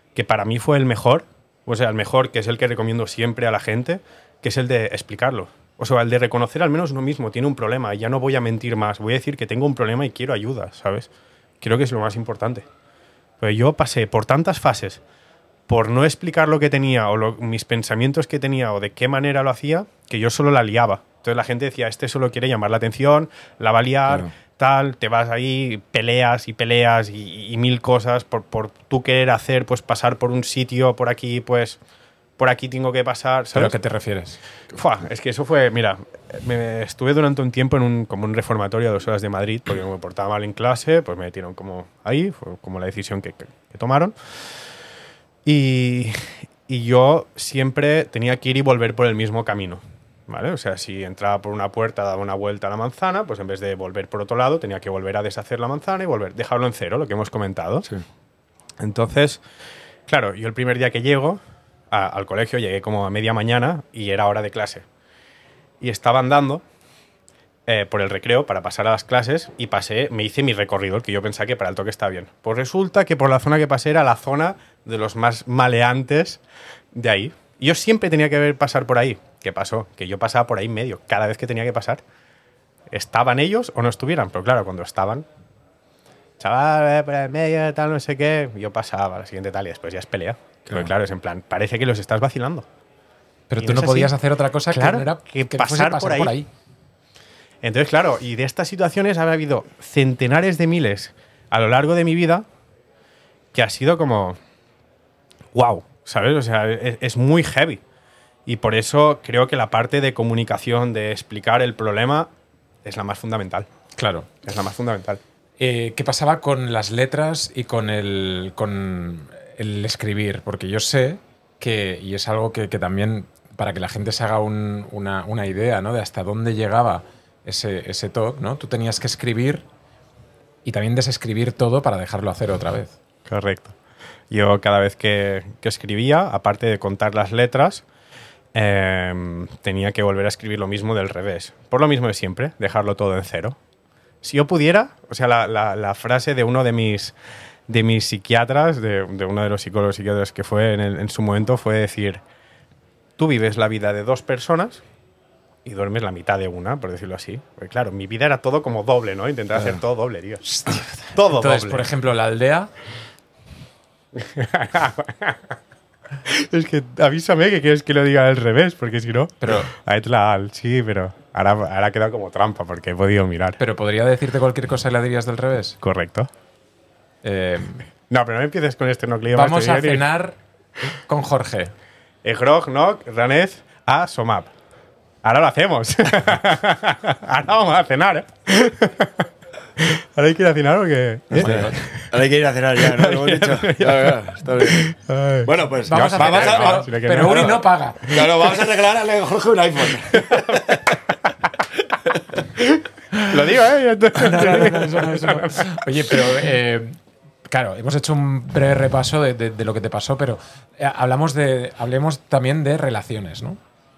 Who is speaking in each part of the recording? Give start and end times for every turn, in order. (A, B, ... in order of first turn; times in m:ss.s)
0:00.2-0:11.1 A
0:11.6-0:12.6 A
0:13.4-0:15.0 A
0:15.7-0:31.8 A
0:32.4-0:33.8 A
0:33.5-0:34.4 B
0:34.7-0:44.2 A
0:45.4-0:57.9 A
0:58.8-0:59.4 A
1:00.1-1:04.8 A
1:05.8-1:06.6 A
1:07.7-1:16.4 A
1:16.9-1:22.0 A
1:22.9-1:25.3 A
1:26.4-1:32.7 A
1:33.5-1:36.5 B
1:33.6-1:34.1 A
1:34.7-1:36.3 A
1:37.6-1:42.4 A
1:43.5-1:44.4 A
1:45.5-1:47.8 A
1:48.5-1:52.3 A
1:52.8-1:53.7 A
1:54.0-1:54.3 B
1:54.4-1:55.2 A
1:55.6-2:09.6 B
2:10.6-2:12.9 B
2:13.3-2:13.7 A
2:14.3-2:17.8 A
2:18.5-2:23.6 A
2:24.2-2:27.1 A
2:27.7-2:32.2 A
2:33.2-2:34.8 A
2:35.6-2:40.4 A
2:40.5-2:42.7 B
2:41.2-2:41.9 A
2:44.2-2:45.4 A
2:46.2-2:53.6 A
2:49.4-2:49.7 B
2:53.6-2:55.8 B
2:55.8-2:56.3 A
2:57.2-2:57.8 B
2:58.1-3:00.0 A
2:59.3-3:00.4 B
3:01.1-3:01.7 B
3:02.2-3:04.5 A
3:05.2-3:09.3 A
3:09.8-3:12.1 A
3:11.4-3:11.7 B
3:11.4-3:14.9 C
3:12.8-3:18.3 A
3:15.4-3:21.0 C
3:15.9-3:18.0 B
3:20.2-3:20.6 A
3:22.1-3:22.4 C
3:23.2-3:25.8 A
3:24.2-3:27.0 B
3:27.5-3:33.6 B